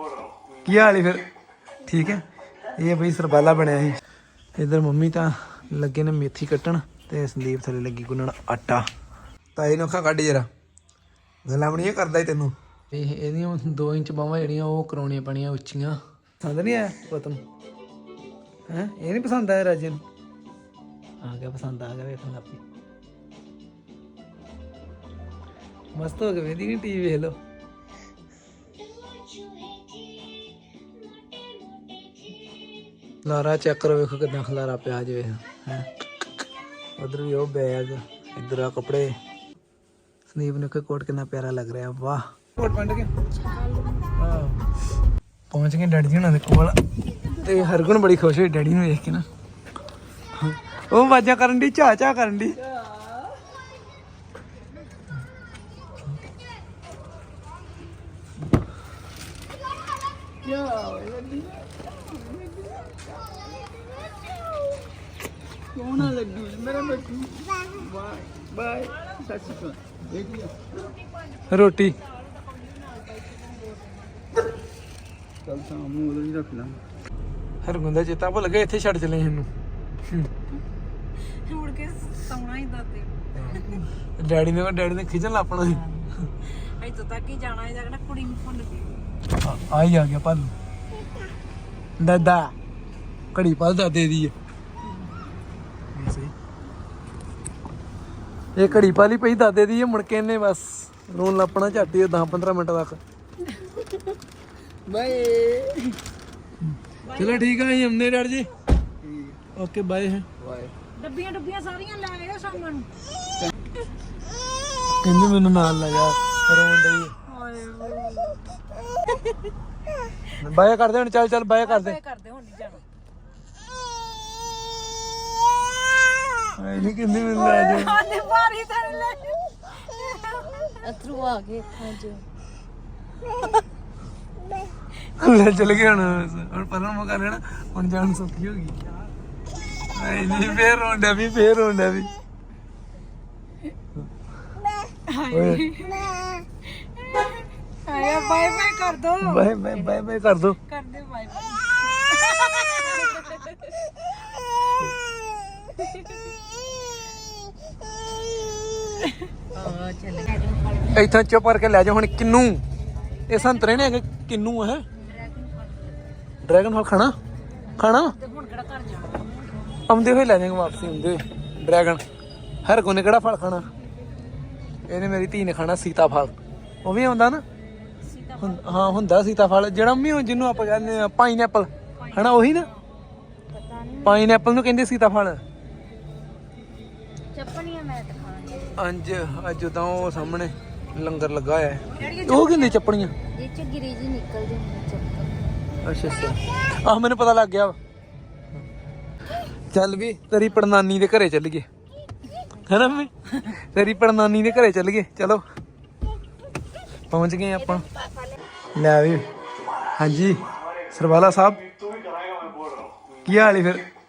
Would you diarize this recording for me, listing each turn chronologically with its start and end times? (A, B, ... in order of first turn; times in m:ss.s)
0:00.6-0:01.2 A
0:01.8-0:02.2 A
0:02.8-0:04.0 A
0:04.6-0:08.9 A
0:09.6-0:10.5 A
0:11.4-0:17.4 A
0:18.7-0:20.0 A
0:21.2-0:22.6 A
0:26.0-0:27.4 A
0:33.2-0:35.9 A
0:37.0-0:39.2 A
0:40.3-0:43.1 A
0:43.4-0:44.1 B
0:44.2-0:44.6 A
0:45.5-0:46.8 A
0:47.3-0:49.3 A
0:50.4-0:52.6 A
0:52.6-0:53.2 C
1:00.4-1:03.4 C
1:05.7-1:10.7 C
1:11.5-1:12.0 A
1:12.2-1:14.4 D
1:15.4-1:16.8 C
1:17.6-1:19.5 A
1:21.2-1:23.9 D
1:23.3-1:25.9 A
1:25.6-1:29.0 D
1:29.4-1:30.5 A
1:32.0-1:32.6 A
1:33.3-1:34.3 A
1:35.9-1:36.3 A
1:38.6-1:43.0 A
1:44.9-1:46.0 C
1:46.6-1:48.5 A
1:47.1-1:47.5 D
1:49.0-1:49.4 C
1:49.6-1:50.3 A
1:50.4-1:50.7 C
1:51.0-1:52.9 D
1:55.0-1:57.2 A
1:57.3-1:59.3 D
2:00.4-2:02.0 A
2:01.6-2:02.8 D
2:06.6-2:08.0 A
2:07.2-2:10.5 D
2:10.8-2:12.2 B
2:15.0-2:18.8 A
2:19.9-2:22.1 A
2:20.1-2:20.6 D
2:25.1-2:27.3 D
2:25.3-2:25.7 A
2:27.8-2:29.8 D
2:29.2-2:30.6 A
2:30.7-2:33.4 D
2:39.7-2:40.9 D
2:39.8-2:40.7 B
2:40.9-2:42.6 A
2:43.3-2:44.8 A
2:45.0-2:46.1 D
2:46.4-2:47.2 A
2:47.8-2:48.2 A
2:48.0-2:49.6 D
2:49.9-2:52.0 A
2:52.6-2:53.7 A
2:54.9-2:57.4 A
2:58.0-2:59.0 D
2:58.4-3:02.7 A
3:02.0-3:02.8 D
3:03.5-3:04.3 B
3:04.0-3:05.4 A
3:07.3-3:08.8 B
3:08.8-3:13.1 A
3:11.9-3:12.8 D
3:13.3-3:15.4 B
3:15.8-3:17.8 A
3:19.7-3:21.7 A
3:22.6-3:25.4 A
3:27.1-3:27.8 A
3:28.8-3:29.2 A
3:30.0-3:30.4 A
3:30.9-3:31.7 A
3:33.2-3:33.8 A